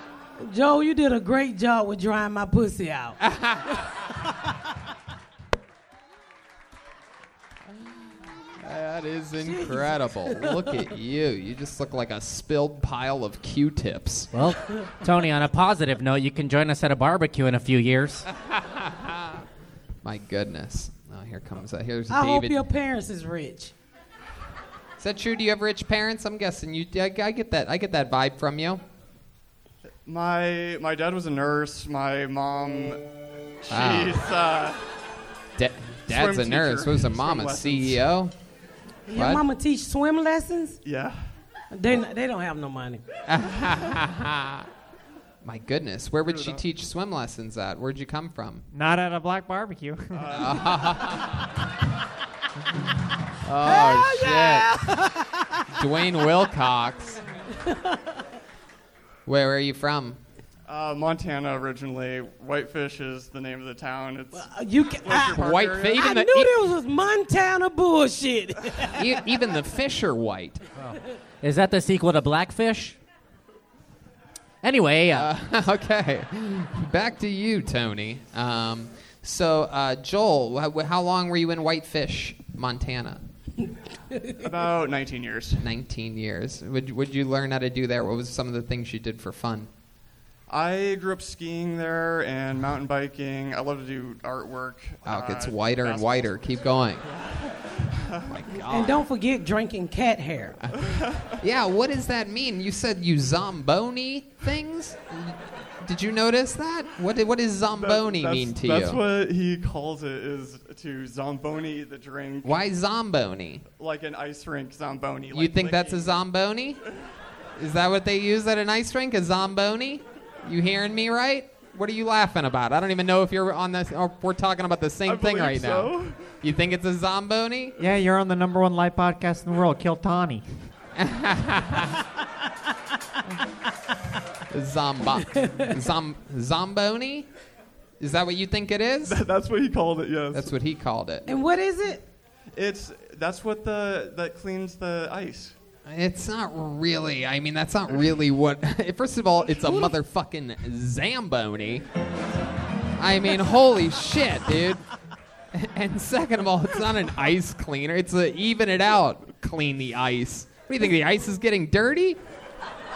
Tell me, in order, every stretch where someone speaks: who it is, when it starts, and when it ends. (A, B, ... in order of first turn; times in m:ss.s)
0:00.4-0:03.2 A
0:03.2-0:03.8 B
0:08.6-0:14.3 B
0:09.4-0:10.8 A
0:14.3-0:18.3 C
0:18.5-0:19.4 B
0:20.0-0:22.6 B
0:22.1-0:23.7 A
0:25.0-0:28.8 B
0:30.1-0:33.0 D
0:33.6-0:34.8 D
0:33.7-0:34.2 B
0:35.6-0:38.3 B
0:36.1-0:38.0 D
0:39.1-0:40.8 A
0:39.1-0:39.4 B
0:40.8-0:41.2 D
0:41.7-0:43.0 A
0:43.3-0:44.7 B
0:45.4-0:48.6 B
0:46.3-0:46.6 D
0:48.7-0:50.4 E
0:50.1-0:51.2 D
0:50.3-0:51.5 B
0:53.4-0:54.9 B
0:53.6-0:55.7 A
0:55.7-0:57.2 B
0:57.5-0:58.2 A
0:59.3-1:00.2 B
1:00.7-1:06.0 D
1:04.3-1:05.4 A
1:05.4-1:06.5 B
1:06.0-1:09.1 A
1:08.9-1:10.6 B
1:11.4-1:13.0 C
1:14.6-1:15.3 C
1:15.1-1:23.2 B
1:24.4-1:25.7 D
1:25.6-1:29.7 B
1:30.5-1:38.4 D
1:35.1-1:37.1 B
1:38.3-1:39.0 B
1:38.7-1:40.6 A
1:40.8-1:41.4 D
1:41.4-1:49.0 B
1:47.7-1:52.6 D
1:52.4-1:53.6 B
1:53.8-1:56.2 D
1:55.3-1:56.8 B
1:57.6-2:07.8 B
2:05.1-2:06.4 D
2:07.8-2:10.4 E
2:11.0-2:11.9 B
2:14.5-2:17.3 B
2:15.4-2:15.7 A
2:18.0-2:19.2 B
2:19.0-2:20.5 D
2:20.3-2:21.3 B
2:21.3-2:22.0 A
2:22.6-2:25.6 D
2:25.9-2:31.8 B
2:33.0-2:34.8 B
2:35.5-2:42.2 B